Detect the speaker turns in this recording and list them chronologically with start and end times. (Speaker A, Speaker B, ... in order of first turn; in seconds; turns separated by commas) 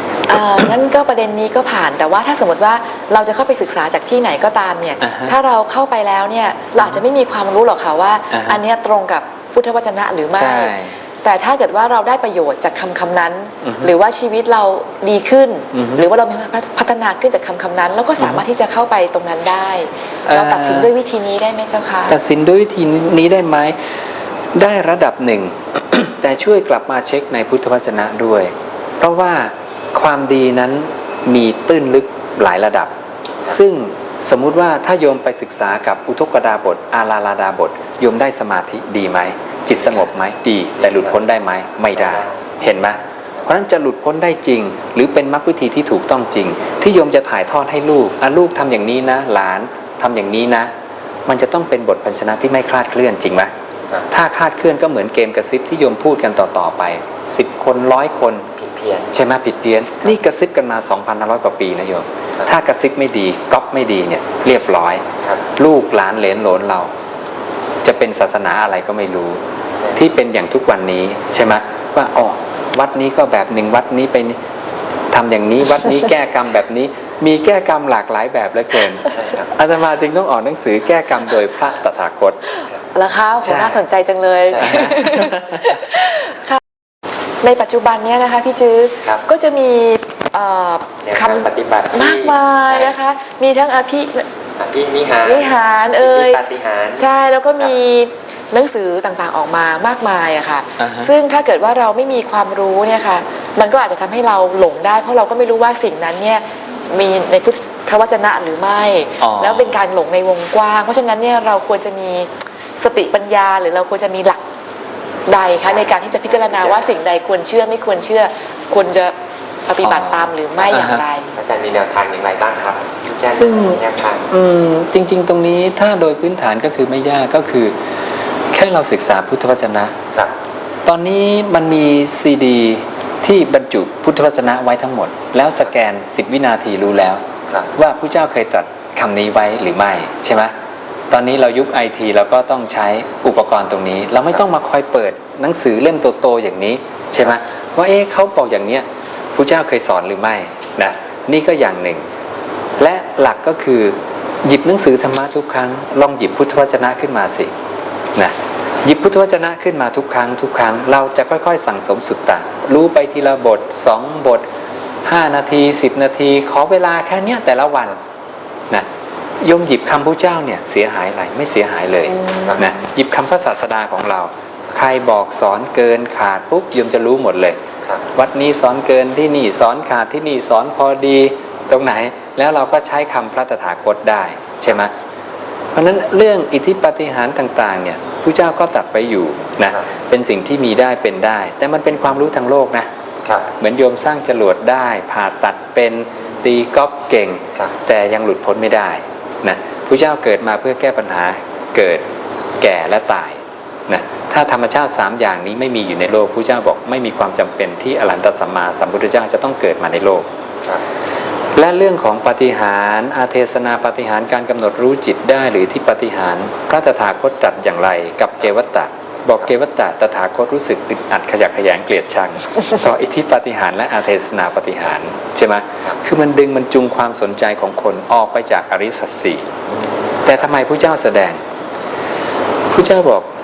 Speaker A: 0.3-22.1, Speaker B: 0.3-0.7, Speaker B: 5.0-5.3, Speaker B: 8.3-8.6, Speaker B: 10.3-10.9, Speaker B: 13.6-13.9, Speaker B: 15.7-16.0, Speaker B: 20.2-20.9, Speaker B: 22.1-23.8, Speaker B: 24.5-32.9, Speaker B: 33.5-50.7, Speaker C: 40.8-41.1, Speaker C: 41.9-42.6, Speaker B: 51.3-53.5, Speaker B: 54.1-58.5, Speaker C: 58.6-59.1, Speaker B: 59.1-65.0, Speaker B: 65.5-66.9, Speaker B: 67.8-69.4, Speaker B: 69.9-74.4, Speaker B: 75.1-82.4, Speaker A: 82.6-86.6, Speaker B: 83.4-83.8, Speaker B: 84.6-85.7, Speaker A: 87.4-94.3, Speaker C: 91.0-92.9, Speaker C: 94.6-97.0, Speaker A: 95.2-96.4, Speaker A: 97.0-114.4, Speaker B: 100.8-101.1, Speaker B: 109.2-109.8, Speaker A: 115.3-119.1, Speaker C: 115.6-116.8, Speaker A: 119.7-121.3, Speaker B: 119.8-121.0, Speaker C: 121.3-124.2, Speaker B: 123.3-127.8, Speaker B: 128.5-130.0, Speaker B: 130.8-137.2, Speaker B: 137.7-140.5, Speaker B: 141.1-152.0, Speaker B: 152.8-157.5, Speaker B: 158.1-164.4, Speaker B: 165.0-168.0, Speaker B: 169.4-177.6, Speaker A: 172.1-172.6, Speaker B: 178.1-184.9, Speaker B: 185.7-192.9, Speaker B: 193.5-202.0, Speaker B: 202.6-210.3, Speaker B: 211.6-229.5, Speaker B: 230.2-231.4, Speaker B: 232.7-233.3